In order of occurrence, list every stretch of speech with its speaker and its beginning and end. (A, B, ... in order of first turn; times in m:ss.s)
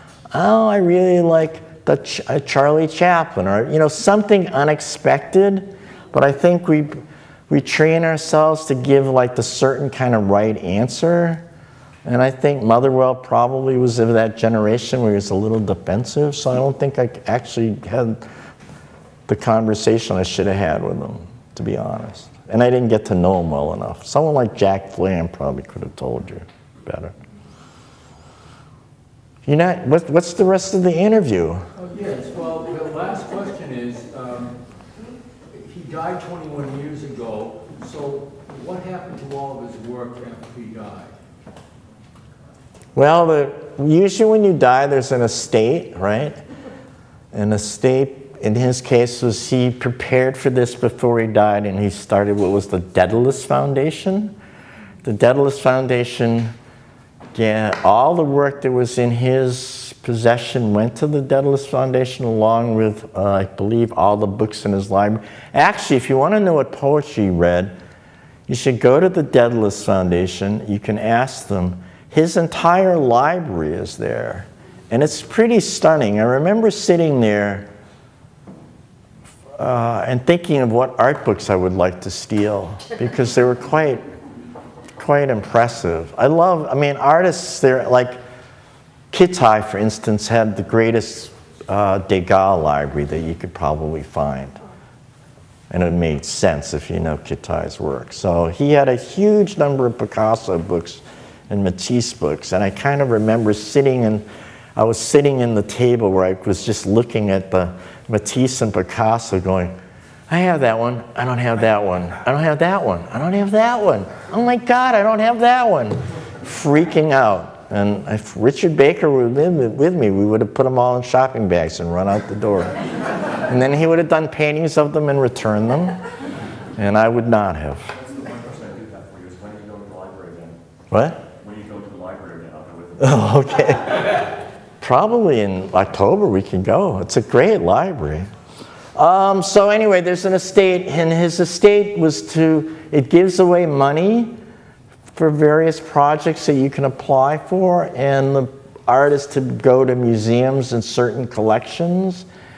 0:00.3-0:11.4 A
0:12.0-0:18.2 A
0:19.3-0:27.1 A
0:29.4-0:31.6 A
0:31.8-0:34.6 B
0:35.5-0:41.1 B
0:43.0-0:46.4 A
0:47.3-0:54.4 A
0:55.0-0:56.5 A
0:57.3-1:07.7 A
1:08.5-1:17.7 A
1:19.6-1:24.0 A
1:25.0-1:28.2 A
1:29.1-1:34.6 A
1:35.7-1:49.8 A
1:50.3-2:02.8 A
2:03.4-2:06.0 A
2:06.8-2:07.9 A
2:07.9-2:10.6 C
2:10.9-2:11.2 A
2:11.3-2:13.4 C
2:13.0-2:14.2 A
2:14.8-2:18.3 A
2:19.0-2:24.4 A
2:25.1-2:32.2 A